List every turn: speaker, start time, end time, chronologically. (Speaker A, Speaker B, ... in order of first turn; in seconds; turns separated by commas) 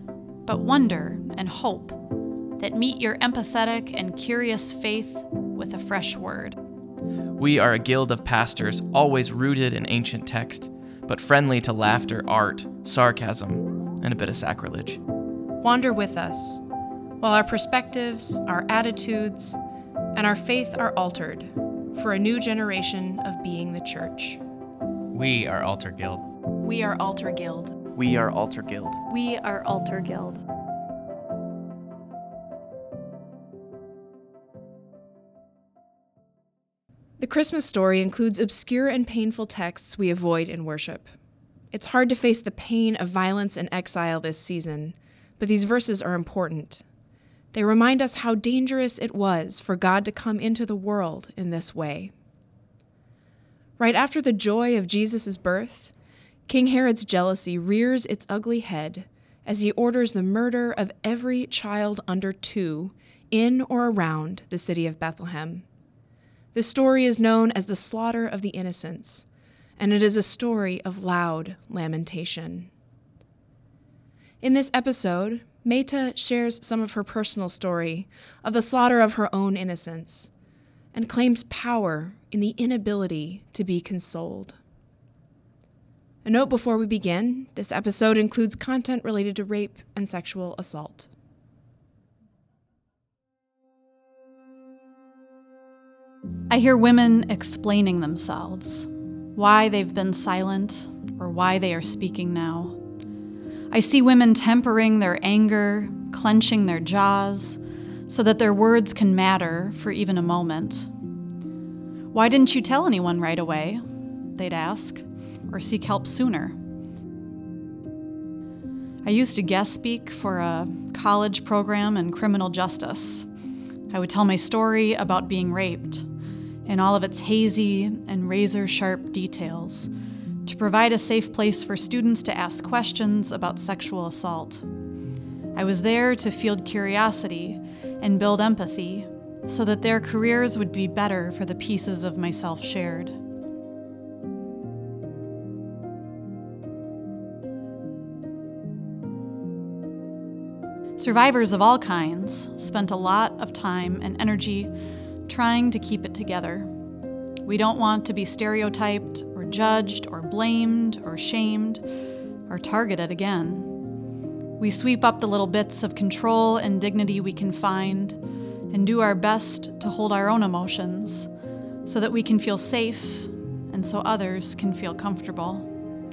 Speaker A: 0.5-2.0, Speaker A: 2.6-6.6, Speaker B: 7.4-15.0, Speaker C: 15.6-16.6, Speaker C: 17.2-19.6, Speaker C: 20.1-24.4, Speaker B: 25.1-26.2, Speaker C: 26.6-27.8, Speaker B: 27.9-29.0, Speaker A: 29.1-30.4, Speaker C: 37.2-41.1, Speaker C: 41.7-46.8, Speaker C: 47.5-52.1, Speaker C: 53.8-55.9, Speaker C: 56.5-65.6, Speaker C: 66.5-69.3, Speaker C: 69.8-72.7, Speaker C: 74.4-80.3, Speaker C: 80.9-84.6, Speaker C: 86.2-91.1, Speaker A: 96.5-102.8, Speaker A: 103.7-110.9, Speaker A: 112.1-116.6, Speaker A: 119.0-123.3, Speaker A: 123.9-126.1, Speaker A: 126.7-129.9, Speaker A: 130.4-134.7, Speaker A: 135.6-143.2, Speaker A: 151.0-154.7, Speaker A: 155.3-156.7, Speaker A: 157.4-161.8, Speaker A: 162.5-163.8, Speaker A: 164.6-168.2, Speaker A: 168.7-171.3, Speaker A: 171.8-175.7